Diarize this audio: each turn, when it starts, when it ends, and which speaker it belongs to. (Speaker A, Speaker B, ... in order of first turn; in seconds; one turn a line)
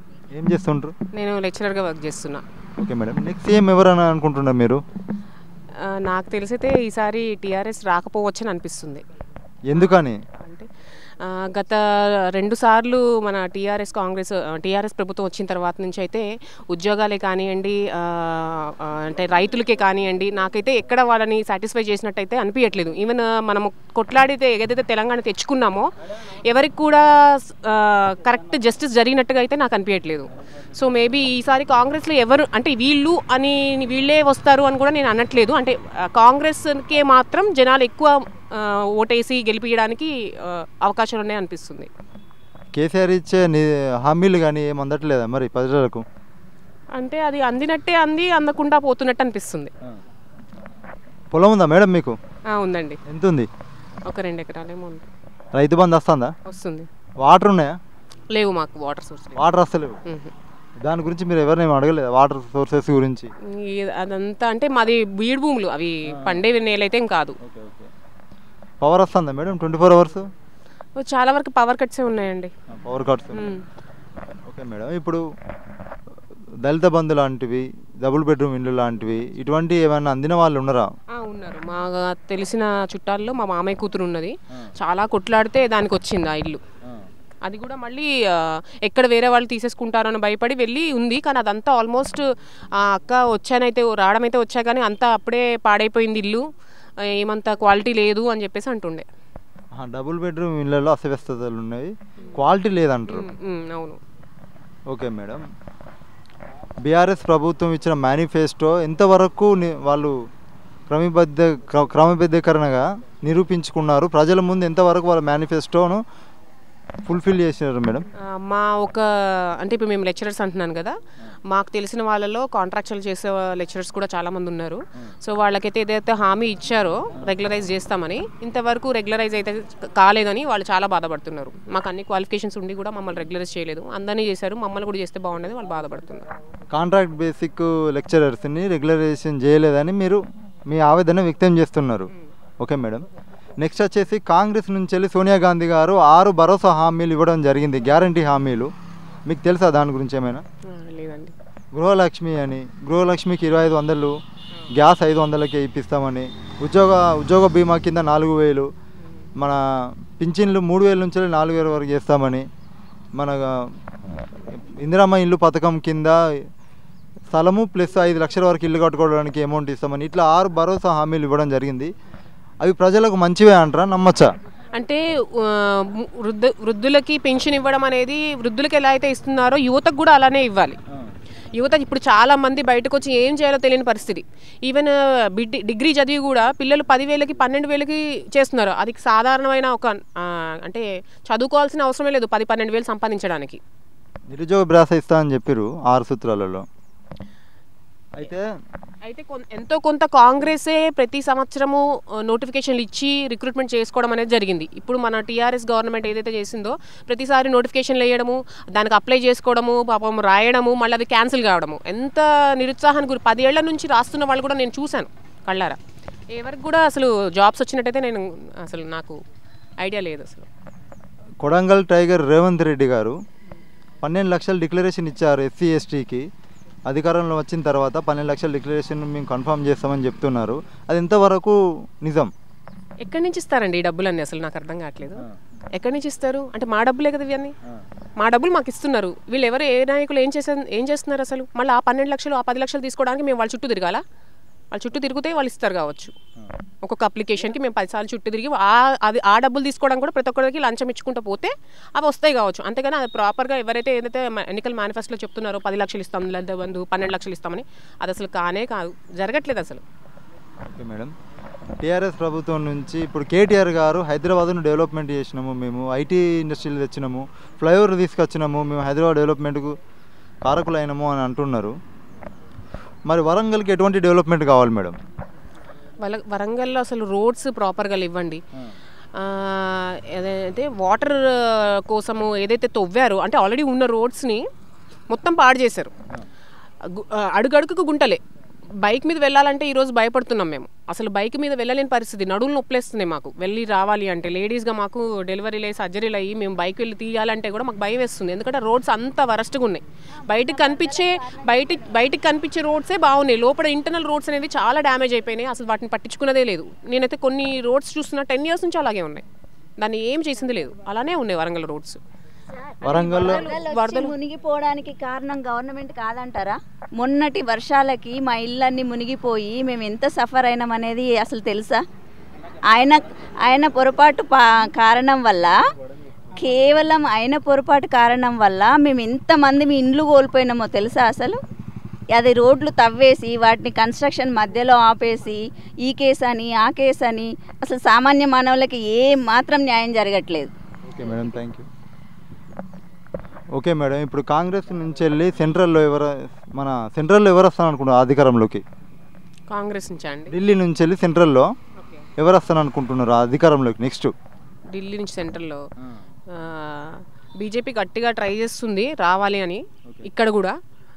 Speaker A: 0.3-0.9
Speaker B: 1.1-2.4
Speaker A: 2.8-4.8
Speaker B: 5.8-9.0
Speaker A: 9.7-10.2
Speaker B: 9.7-10.7
Speaker B: 11.2-41.9
Speaker A: 42.8-46.1
Speaker B: 47.0-49.7
Speaker A: 51.3-52.2
Speaker B: 52.5-53.0
Speaker A: 53.1-53.5
Speaker B: 54.1-55.1
Speaker A: 55.5-56.3
Speaker B: 56.5-56.9
Speaker A: 57.2-57.8
Speaker B: 58.3-59.4
Speaker A: 59.4-60.0
Speaker B: 60.1-60.3
Speaker A: 60.8-63.3
Speaker B: 63.5-67.4
Speaker A: 67.4-67.9
Speaker A: 68.8-70.3
Speaker B: 71.0-72.5
Speaker A: 72.7-73.6
Speaker B: 73.3-73.6
Speaker A: 74.5-75.2
Speaker A: 76.6-80.9
Speaker B: 81.1-86.6
Speaker B: 87.5-96.5
Speaker B: 97.1-99.1
Speaker A: 99.8-103.3
Speaker B: 103.1-104.0
Speaker A: 104.9-105.5
Speaker A: 106.8-110.1
Speaker A: 110.9-116.0
Speaker A: 117.1-118.0
Speaker B: 118.3-121.0
Speaker B: 121.5-136.2
Speaker A: 136.7-143.0
Speaker A: 143.6-148.7
Speaker A: 149.3-150.4
Speaker B: 150.7-151.3
Speaker A: 151.7-154.2
Speaker A: 154.7-158.7
Speaker A: 159.4-162.5
Speaker A: 163.2-163.7
Speaker A: 164.4-166.2
Speaker A: 167.3-171.9
Speaker A: 172.6-174.3
Speaker B: 174.7-180.8
Speaker B: 181.5-193.6
Speaker A: 194.3-196.7
Speaker A: 198.2-198.5
Speaker B: 199.1-215.8
Speaker B: 216.3-219.2
Speaker B: 219.8-220.5
Speaker A: 221.4-223.2
Speaker A: 224.0-226.2
Speaker A: 226.9-232.3
Speaker B: 233.0-235.2
Speaker B: 235.8-237.6
Speaker B: 238.2-244.0
Speaker B: 244.7-246.2
Speaker B: 246.8-259.8
Speaker A: 260.6-261.1
Speaker A: 261.8-269.7
Speaker A: 270.4-271.8
Speaker A: 273.1-275.0
Speaker B: 276.0-278.4
Speaker B: 279.1-284.4
Speaker B: 285.1-285.9
Speaker B: 286.8-288.2
Speaker B: 288.8-309.2
Speaker C: 300.2-301.5
Speaker B: 309.8-312.0
Speaker A: 312.8-313.4
Speaker B: 312.8-314.1
Speaker C: 313.3-321.8
Speaker C: 322.7-325.6
Speaker C: 326.4-331.4
Speaker C: 332.1-340.5
Speaker A: 340.9-341.7
Speaker A: 343.6-348.6
Speaker B: 349.5-350.3
Speaker A: 350.3-351.5
Speaker B: 351.8-352.1
Speaker A: 352.2-354.1
Speaker B: 354.7-355.6
Speaker B: 356.3-360.6